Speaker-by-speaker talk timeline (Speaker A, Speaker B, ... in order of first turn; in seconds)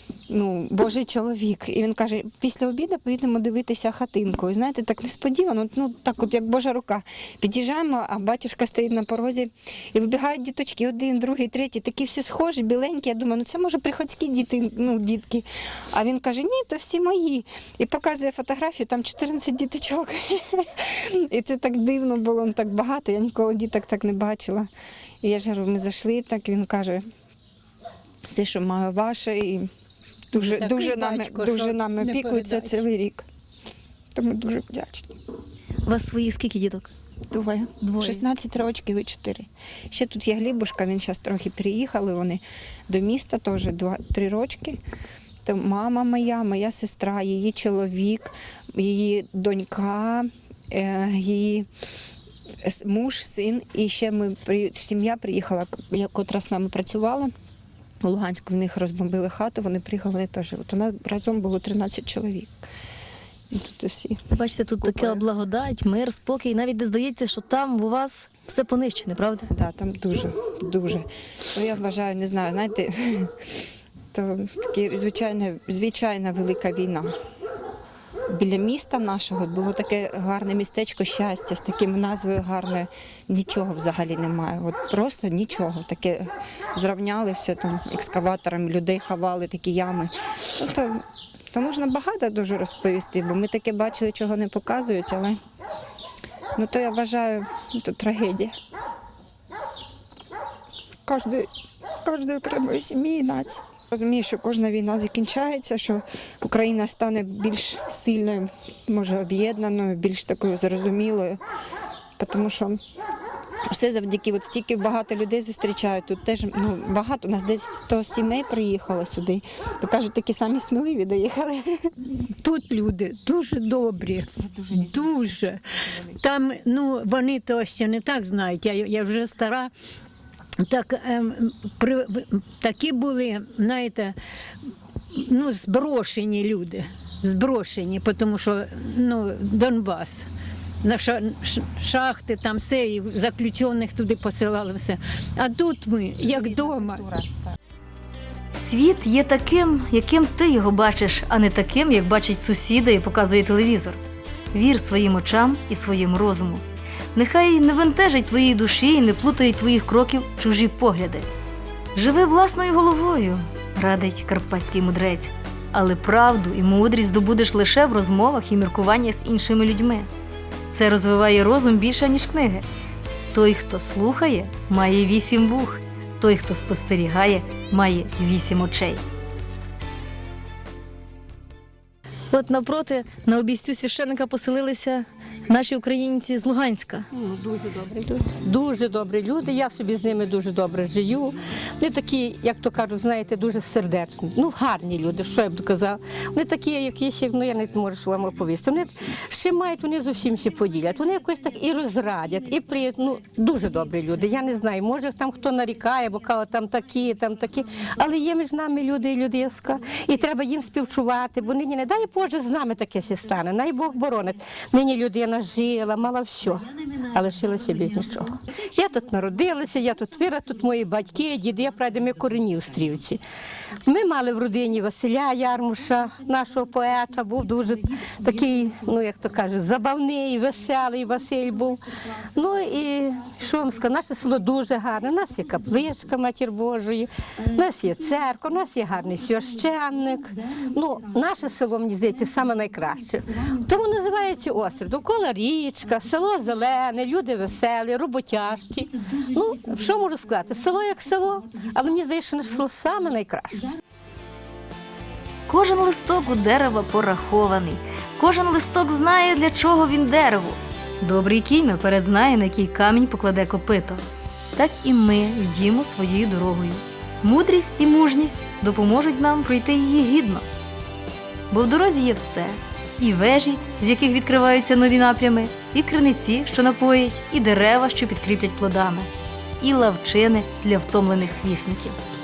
Speaker A: 0.3-24.7, 25.2-27.0, 28.3-29.7, 30.3-33.2, 34.1-35.1, 37.3-44.8, 45.4-51.7, 52.6-57.3, 58.0-62.6, 63.5-64.2, 64.8-65.2, 69.5-73.3, 74.1-77.1, 78.3-95.4, 96.5-98.5, 101.0-101.5, 102.0-111.4, 112.2-112.8, 113.7-121.9, 124.4-125.4, 146.2-147.5
Speaker B: 30.3-32.9, 122.4-125.6, 126.2-129.7, 130.6-134.2, 135.1-140.3, 140.8-147.0
Speaker C: 35.9-36.9, 37.8-38.2, 64.3-69.5, 182.3-187.1
Speaker D: 148.5-154.0, 154.5-156.6, 157.1-161.2, 161.9-170.1, 170.7-172.7, 173.3-179.0, 255.5-270.4, 271.5-282.0
Speaker E: 187.1-223.2, 223.8-231.8, 232.3-253.8